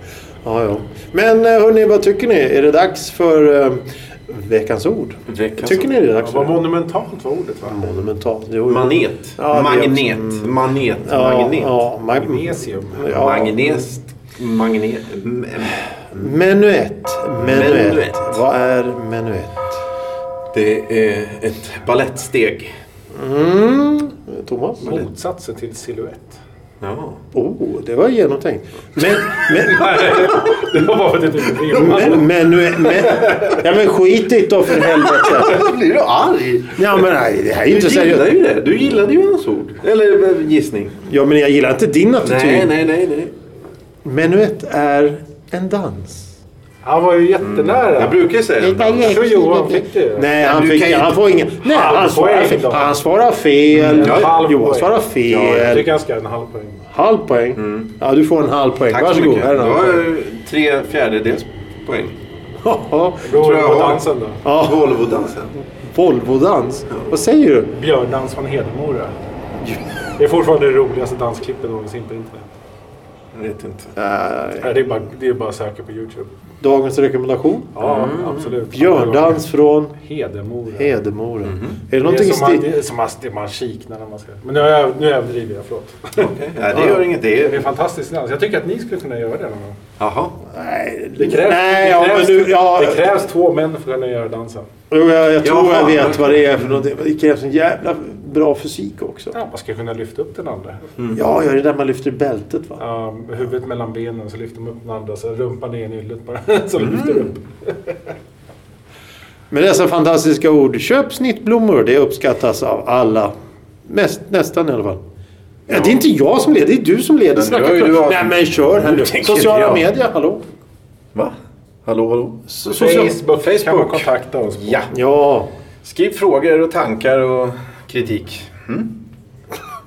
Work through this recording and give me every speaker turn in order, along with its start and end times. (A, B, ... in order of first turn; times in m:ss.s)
0:00.4-0:06.6 A
0:05.3-0:05.9 B
0:06.2-0:07.9 C
0:07.6-0:10.5 A
0:08.6-0:11.8 B
0:11.0-0:13.8 A
0:12.1-0:13.2 C
0:13.1-0:16.2 B
0:16.1-0:19.8 A
0:17.4-0:18.4 B
0:20.5-0:22.7 B
0:23.1-0:25.1 A
0:24.8-0:26.4 C
0:26.8-0:27.2 B
0:27.3-0:30.1 A
0:29.5-0:32.3 C
0:31.7-0:35.6 A
0:31.8-0:32.2 B
0:32.8-0:33.6 B
0:34.8-0:37.0 B
0:36.8-0:38.3 A
0:37.7-0:41.0 B
0:41.0-0:42.7 A
0:42.2-0:43.3 B
0:44.0-0:46.3 A
0:46.8-0:48.3 C
0:47.4-0:49.3 B
0:48.6-0:55.9 A
0:49.0-0:50.5 C
0:50.4-0:51.1 B
0:51.6-0:53.0 C
0:53.7-0:54.4 B
0:53.8-0:56.8 C
0:55.3-0:55.8 B
0:56.9-1:00.1 A
0:57.6-0:57.9 B
0:58.9-1:02.2 B
1:02.6-1:03.3 A
1:03.2-1:04.4 C
1:03.3-1:05.5 B
1:04.4-1:04.9 A
1:05.8-1:07.7 A
1:07.7-1:09.1 C
1:10.2-1:12.5 C
1:13.3-1:13.9 B
1:14.0-1:14.7 A
1:14.6-1:16.3 C
1:16.6-1:17.7 A
1:17.7-1:21.0 C
1:17.8-1:18.6 B
1:18.7-1:19.9 A
1:20.8-1:22.7 A
1:21.4-1:21.8 B
1:22.0-1:29.8 C
1:26.2-1:27.7 B
1:30.0-1:30.4 B
1:30.5-1:33.0 A
1:31.2-1:34.7 C
1:34.9-1:39.3 A
1:35.4-1:36.7 B
1:39.3-1:40.9 C
1:41.1-1:42.8 A
1:42.8-1:48.0 C
1:46.8-1:47.2 B
1:49.5-1:53.3 A
1:53.9-1:55.0 A
1:55.7-2:00.4 A
1:55.7-1:56.0 B
1:57.3-1:59.8 B
2:01.8-2:04.9 B
2:02.5-2:03.2 A
2:02.6-2:04.9 C
2:04.9-2:05.5 A
2:05.8-2:08.9 B